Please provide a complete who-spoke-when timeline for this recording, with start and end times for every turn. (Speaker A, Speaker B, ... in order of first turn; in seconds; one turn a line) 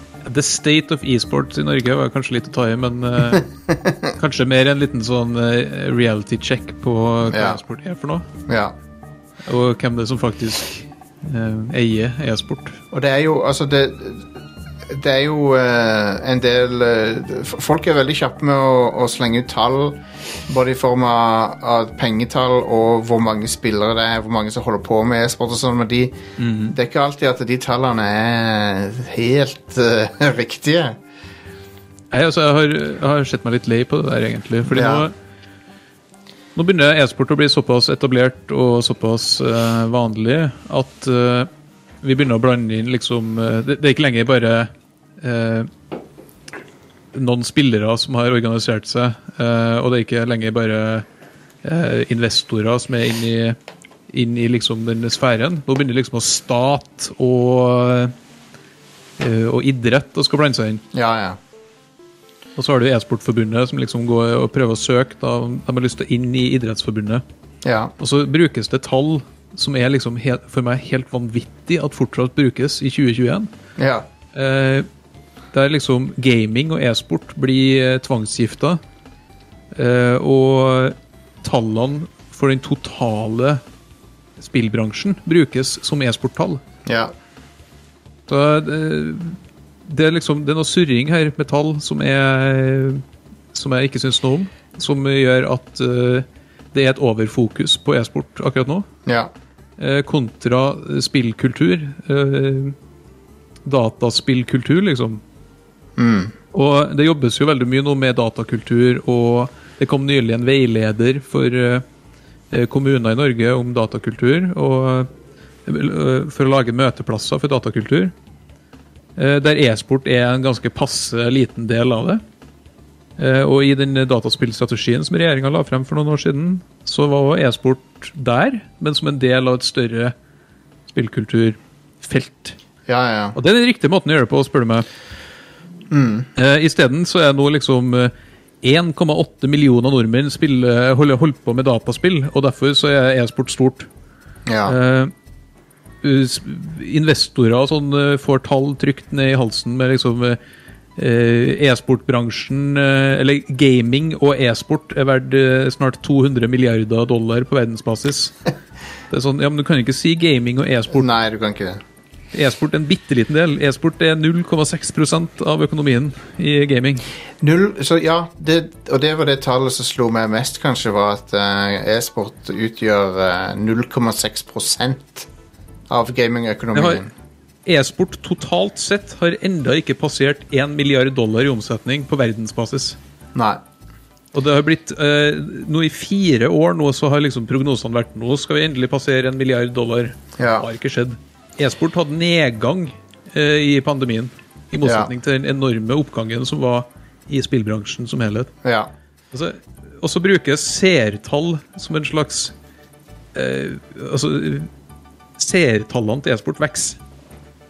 Speaker A: 0.2-3.5
Speaker B: 3.7-4.1
Speaker A: 4.2-8.2
Speaker B: 7.3-7.6
Speaker B: 8.5-8.7
Speaker A: 9.4-12.8
Speaker B: 12.9-14.3
Speaker B: 14.9-26.1
Speaker A: 26.4-26.8
Speaker B: 26.7-30.9
Speaker A: 32.1-35.1
Speaker B: 34.7-35.1
Speaker A: 36.5-41.5
Speaker A: 42.0-45.7
Speaker A: 47.1-51.0
Speaker A: 51.6-53.6
Speaker A: 54.1-58.1
Speaker A: 59.2-60.8
Speaker B: 60.9-61.4
Speaker A: 62.5-67.2
Speaker B: 67.6-67.9
Speaker A: 68.0-73.5
Speaker B: 73.8-74.0
Speaker A: 74.3-74.9
Speaker A: 75.5-78.8
Speaker A: 79.7-83.6
Speaker A: 84.4-86.6
Speaker B: 86.8-87.1
Speaker A: 88.3-98.9
Speaker B: 99.0-99.3
Speaker A: 99.8-102.7
Speaker A: 103.6-105.2
Speaker B: 106.0-106.3
Speaker A: 106.5-111.8
Speaker A: 112.5-115.1
Speaker A: 115.7-118.1
Speaker A: 119.2-122.2
Speaker A: 123.2-130.1
Speaker A: 130.9-132.6
Speaker B: 132.9-133.4
Speaker A: 133.3-134.8
Speaker B: 135.9-136.3
Speaker A: 136.3-143.9
Speaker B: 144.5-144.7
Speaker A: 144.6-145.1
Speaker A: 146.0-150.4
Speaker A: 151.0-158.4
Speaker A: 159.1-161.1
Speaker B: 160.9-161.8
Speaker A: 162.3-167.0
Speaker B: 167.4-175.3
Speaker B: 175.9-177.1
Speaker A: 176.7-177.0
Speaker A: 177.7-183.0
Speaker B: 183.3-183.6
Speaker A: 184.3-198.5
Speaker B: 190.4-190.7
Speaker B: 194.8-195.1
Speaker B: 198.6-198.9
Speaker A: 199.3-202.5
Speaker A: 203.3-204.7
Speaker A: 205.4-207.0